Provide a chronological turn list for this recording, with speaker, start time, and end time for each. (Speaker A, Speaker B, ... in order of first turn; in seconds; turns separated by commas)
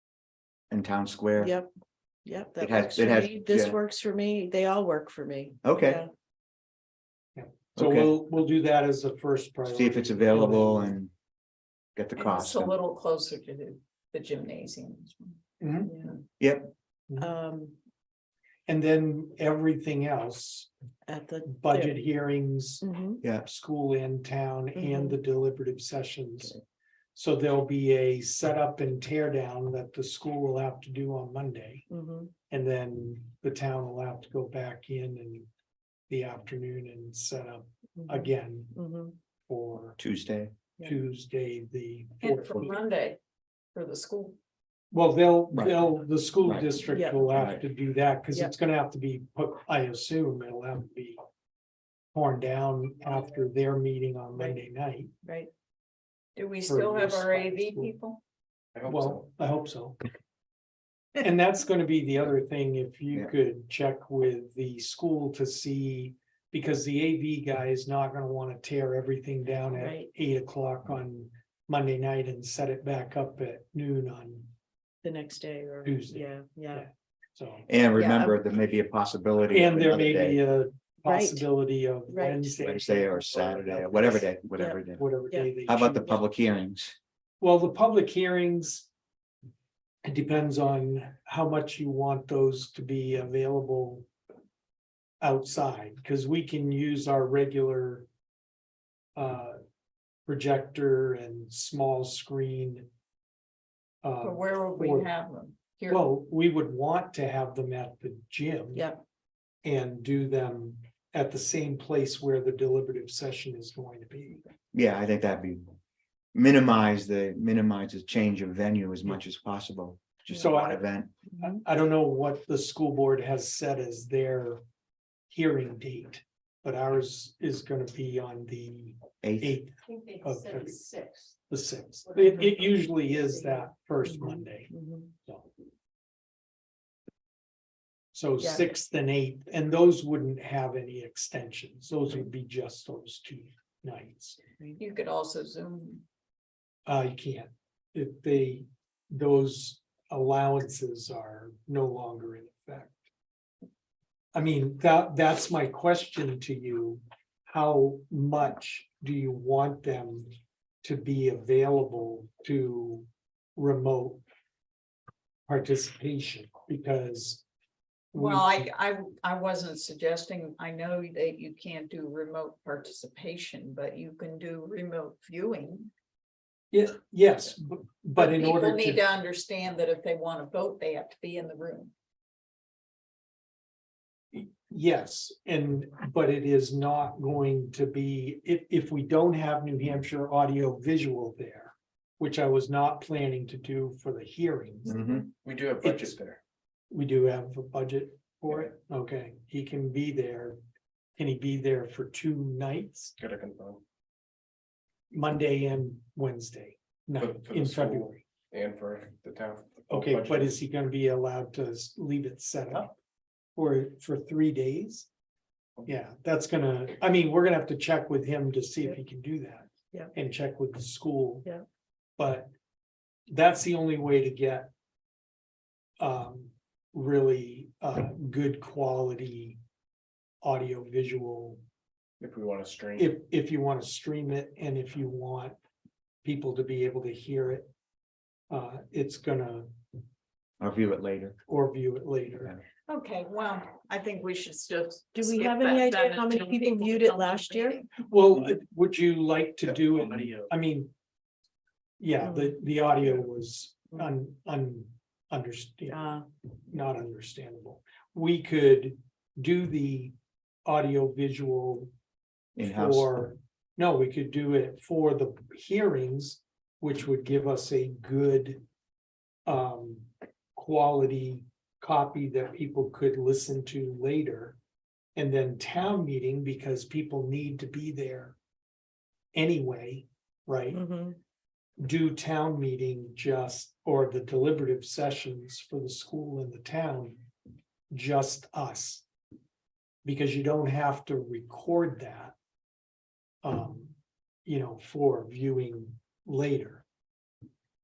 Speaker A: 0.7-1.6, Speaker B: 1.4-1.7, Speaker B: 2.2-6.1, Speaker A: 2.6-3.8, Speaker A: 5.6-6.0, Speaker C: 7.3-11.0, Speaker A: 7.8-8.1, Speaker A: 9.6-11.1, Speaker A: 11.9-12.8, Speaker D: 12.2-15.4, Speaker C: 15.6-15.9, Speaker B: 15.9-16.1, Speaker A: 16.4-16.7, Speaker C: 17.1-17.3, Speaker B: 17.2-17.8, Speaker C: 18.7-20.7, Speaker B: 21.1-22.0, Speaker C: 21.5-26.6, Speaker B: 22.8-23.2, Speaker B: 24.8-25.2, Speaker C: 27.1-31.9, Speaker B: 31.9-32.3, Speaker C: 32.5-35.5, Speaker C: 36.1-38.8, Speaker B: 38.0-39.1, Speaker C: 39.5-40.0, Speaker A: 40.0-40.5, Speaker C: 40.8-42.8, Speaker D: 42.2-43.2, Speaker D: 43.7-44.4, Speaker C: 44.9-51.2, Speaker A: 45.5-45.9, Speaker A: 46.4-47.6, Speaker B: 46.9-47.3, Speaker C: 52.1-55.1, Speaker B: 55.2-55.5, Speaker D: 56.4-58.2, Speaker C: 56.6-57.9, Speaker E: 58.7-59.2, Speaker C: 58.8-60.0, Speaker C: 61.1-74.5, Speaker B: 69.7-70.1, Speaker B: 75.0-76.9, Speaker C: 75.8-77.7, Speaker A: 77.7-80.4, Speaker D: 78.0-78.2, Speaker C: 79.5-84.3, Speaker B: 81.0-81.5, Speaker B: 82.1-82.5, Speaker A: 82.6-85.1, Speaker C: 84.9-86.2, Speaker A: 85.7-87.0, Speaker C: 87.4-88.9, Speaker C: 90.0-94.0, Speaker C: 95.2-98.1, Speaker C: 99.2-99.6, Speaker C: 100.3-102.9, Speaker C: 104.0-105.1, Speaker D: 104.2-106.0, Speaker C: 105.9-108.9, Speaker B: 108.7-109.0, Speaker C: 109.6-114.4, Speaker A: 114.7-115.7, Speaker A: 116.3-121.1, Speaker C: 120.3-120.8, Speaker C: 121.3-124.6, Speaker C: 125.3-130.8, Speaker A: 129.2-129.6, Speaker D: 129.8-131.3, Speaker C: 131.5-134.7, Speaker B: 132.4-132.7, Speaker B: 134.0-135.1, Speaker C: 138.1-144.4, Speaker B: 138.4-138.6, Speaker D: 144.8-146.0, Speaker C: 146.8-153.0, Speaker C: 154.3-160.3, Speaker C: 160.8-164.2, Speaker C: 165.5-167.4, Speaker C: 168.1-168.7, Speaker D: 168.1-175.9, Speaker C: 176.7-179.0, Speaker D: 178.2-181.9, Speaker C: 184.3-195.2, Speaker A: 194.9-195.3, Speaker E: 195.3-196.4, Speaker C: 195.8-196.1, Speaker C: 196.9-200.6, Speaker C: 201.2-203.1, Speaker E: 203.2-203.8, Speaker C: 205.1-208.2, Speaker E: 207.2-210.5, Speaker C: 209.9-212.9, Speaker C: 213.6-215.1, Speaker C: 215.8-221.5, Speaker C: 222.2-222.5, Speaker C: 223.3-224.7, Speaker C: 226.0-229.6, Speaker C: 230.4-231.6, Speaker E: 232.2-233.1, Speaker C: 233.0-235.6, Speaker C: 236.2-237.7, Speaker C: 238.5-239.7, Speaker A: 240.6-241.4, Speaker C: 241.5-242.6, Speaker D: 242.9-247.9, Speaker B: 245.1-247.8, Speaker C: 248.0-250.9, Speaker E: 250.0-250.5, Speaker C: 252.0-256.0, Speaker B: 252.2-252.6, Speaker B: 255.9-256.2, Speaker C: 256.7-260.1, Speaker C: 260.6-261.9, Speaker A: 262.6-263.1, Speaker C: 262.6-268.6, Speaker C: 269.5-274.6, Speaker C: 275.1-278.3, Speaker C: 279.3-280.8, Speaker B: 280.7-281.2, Speaker C: 281.8-287.2, Speaker C: 287.9-289.0, Speaker C: 290.0-292.3, Speaker C: 293.4-293.9, Speaker C: 294.4-296.8